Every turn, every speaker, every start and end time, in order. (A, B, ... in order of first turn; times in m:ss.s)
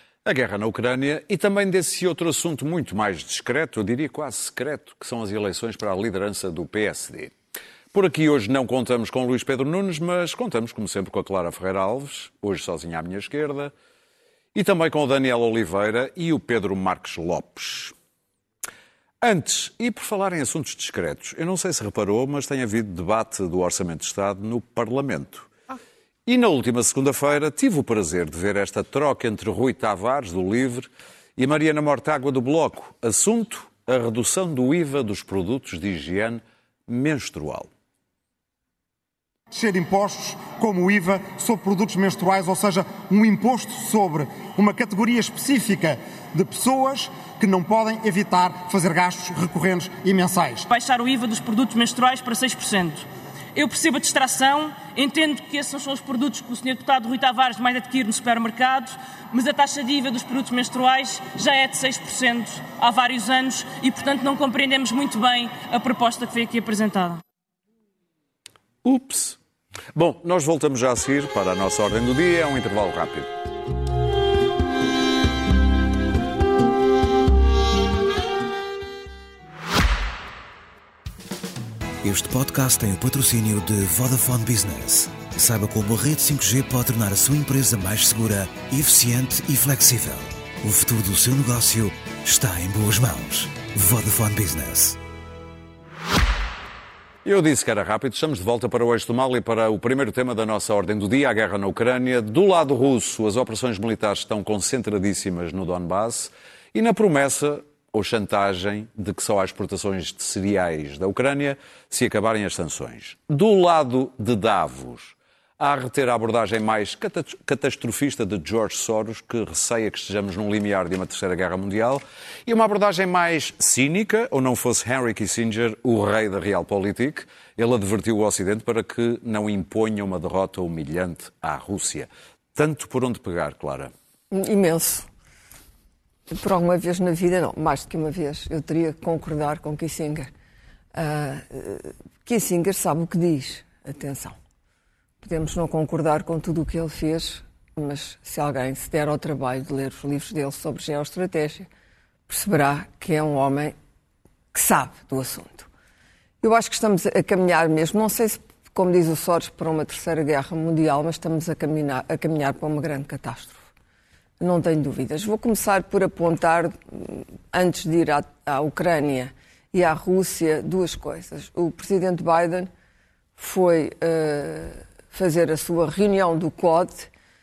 0:00.2-0:07.4 A
0:07.9-0:13.7 A
0:14.6-0:17.9 A
0:19.2-0:25.5 A
0:26.3-0:37.7 A
0:39.5-0:50.7 B
0:50.7-1:07.2 C
1:08.8-1:09.4 A
1:10.0-1:13.3 A
1:22.0-1:35.0 D
1:37.2-2:13.9 A
2:14.3-2:15.1 E
2:16.3-2:20.3 E
2:21.0-2:24.4 E
2:25.2-2:31.7 E
2:32.3-2:33.8 E
2:34.5-2:35.7 E
2:36.4-2:43.6 E
2:44.4-2:52.7 E
2:53.4-2:57.1 E